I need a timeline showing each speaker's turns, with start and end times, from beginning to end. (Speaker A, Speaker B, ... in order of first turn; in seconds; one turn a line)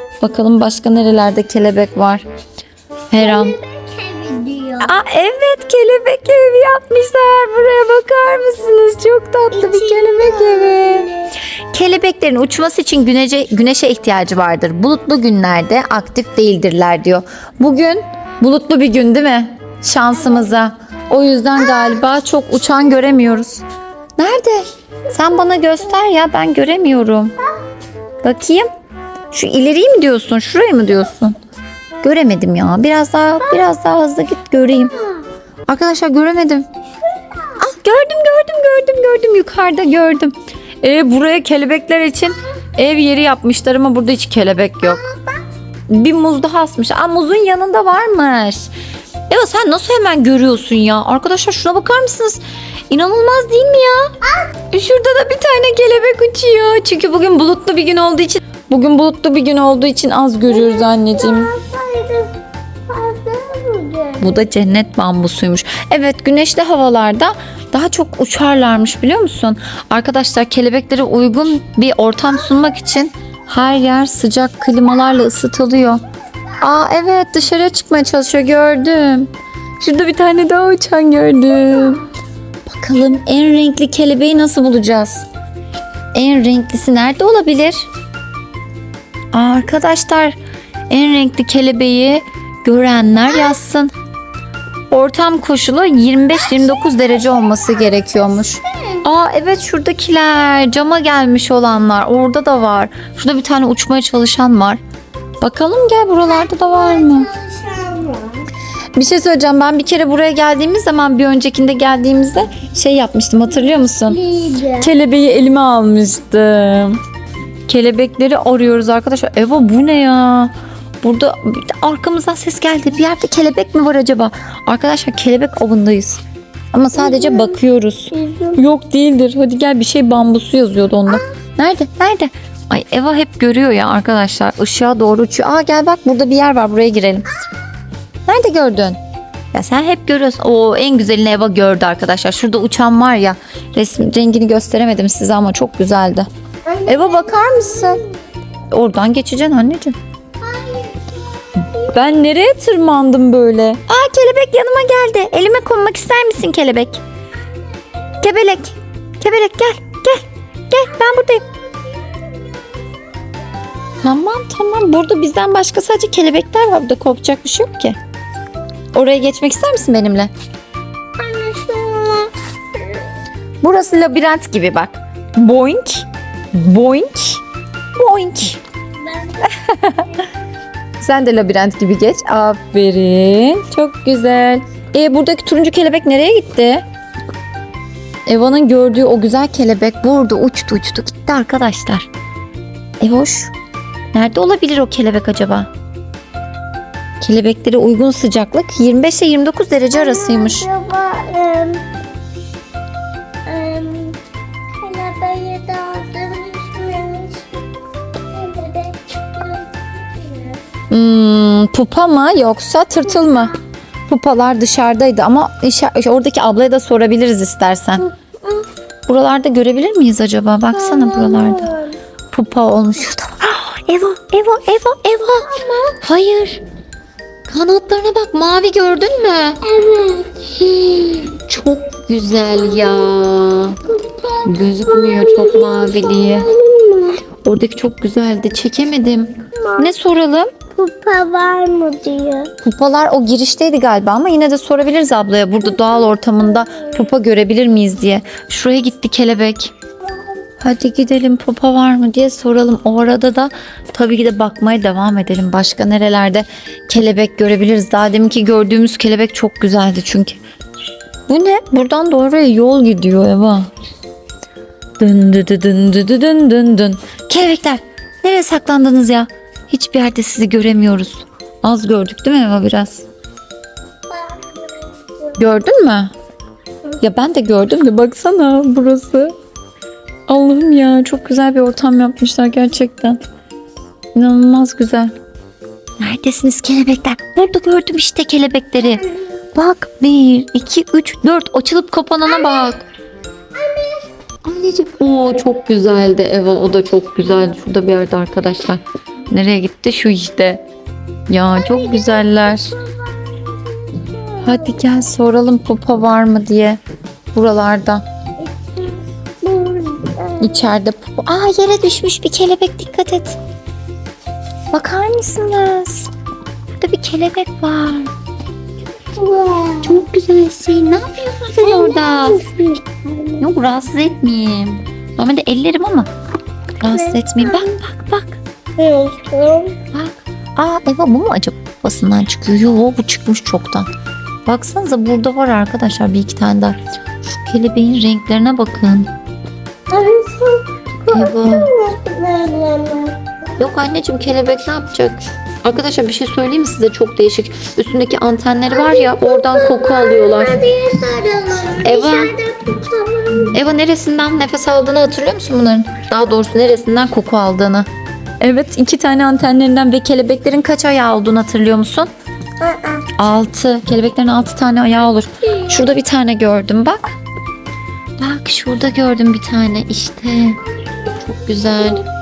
Speaker A: 0.2-2.2
Speaker A: 3.1-3.5
Speaker B: 3.2-4.9
Speaker A: 4.8-11.1
Speaker B: 9.5-11.3
Speaker A: 11.7-23.6
Speaker A: 24.2-27.3
Speaker A: 28.2-28.6
Speaker A: 29.3-31.4
Speaker A: 32.0-34.9
Speaker B: 34.9-35.2
Speaker A: 35.7-36.7
Speaker B: 37.1-37.6
Speaker A: 37.6-45.0
Speaker B: 44.8-45.4
Speaker A: 45.9-48.7
Speaker A: 49.3-54.1
Speaker B: 54.2-54.5
Speaker A: 54.7-61.5
Speaker B: 60.5-62.3
Speaker B: 62.9-64.4
Speaker A: 64.2-76.0
Speaker A: 76.6-82.0
Speaker A: 82.7-85.2
Speaker A: 86.1-87.9
Speaker A: 89.3-90.4
Speaker A: 90.9-93.9
Speaker A: 94.9-104.8
Speaker B: 98.7-99.0
Speaker A: 105.4-107.3
Speaker B: 106.2-108.5
Speaker A: 109.0-114.2
Speaker B: 114.0-114.9
Speaker A: 114.8-117.0
Speaker A: 117.7-126.2
Speaker A: 126.7-137.3
Speaker B: 127.0-127.6
Speaker B: 128.1-128.6
Speaker A: 138.2-139.0
Speaker A: 139.5-146.3
Speaker B: 146.7-148.1
Speaker A: 146.9-148.0
Speaker A: 148.7-149.9
Speaker B: 150.4-152.0
Speaker A: 151.8-157.0
Speaker A: 158.2-161.4
Speaker B: 161.7-163.3
Speaker A: 164.0-167.9
Speaker A: 168.9-170.3
Speaker B: 171.2-173.0
Speaker A: 173.6-177.4
Speaker A: 177.9-178.6
Speaker B: 179.2-179.5
Speaker A: 179.4-180.1
Speaker A: 181.0-186.8
Speaker A: 188.2-192.1
Speaker A: 193.0-193.5
Speaker A: 194.1-195.7
Speaker A: 197.2-200.7
Speaker B: 199.9-201.8
Speaker B: 203.4-204.2
Speaker B: 204.8-207.6
Speaker B: 208.3-210.6
Speaker A: 210.9-213.6
Speaker B: 213.2-213.5
Speaker A: 214.1-218.1
Speaker B: 218.0-218.7
Speaker A: 219.1-221.7
Speaker B: 220.7-222.0
Speaker A: 222.3-226.6
Speaker B: 225.4-226.0
Speaker A: 227.5-229.6
Speaker B: 229.6-230.5
Speaker A: 230.5-233.8
Speaker B: 233.9-237.2
Speaker A: 234.4-236.5
Speaker A: 237.4-240.5
Speaker B: 240.7-242.5
Speaker A: 242.6-249.7
Speaker B: 245.7-246.9
Speaker A: 250.6-260.4
Speaker A: 261.3-263.7
Speaker A: 265.0-273.1
Speaker B: 274.1-275.4
Speaker A: 275.4-276.1
Speaker A: 277.0-279.3
Speaker A: 280.3-283.2
Speaker A: 284.1-285.1
Speaker A: 286.0-292.8
Speaker B: 288.8-289.2
Speaker B: 292.2-292.7
Speaker B: 293.5-294.1
Speaker A: 294.4-300.6
Speaker A: 301.3-302.7
Speaker B: 301.5-304.8
Speaker A: 304.4-306.8
Speaker A: 307.3-308.0
Speaker B: 308.4-310.5
Speaker A: 310.4-313.4
Speaker A: 314.7-316.1
Speaker A: 316.8-318.1
Speaker B: 319.1-319.9
Speaker A: 319.8-322.4
Speaker B: 321.6-323.4
Speaker A: 323.4-326.1
Speaker A: 326.8-328.4
Speaker B: 326.9-327.7
Speaker B: 328.8-329.8
Speaker A: 329.9-333.9
Speaker A: 334.4-339.1
Speaker B: 339.9-343.2
Speaker A: 341.1-341.7
Speaker A: 343.6-350.6
Speaker B: 348.7-353.6
Speaker A: 351.8-352.3
Speaker A: 353.5-357.9
Speaker A: 358.4-362.1
Speaker B: 362.6-363.1
Speaker A: 363.2-367.1
Speaker A: 368.2-370.6
Speaker A: 371.2-372.0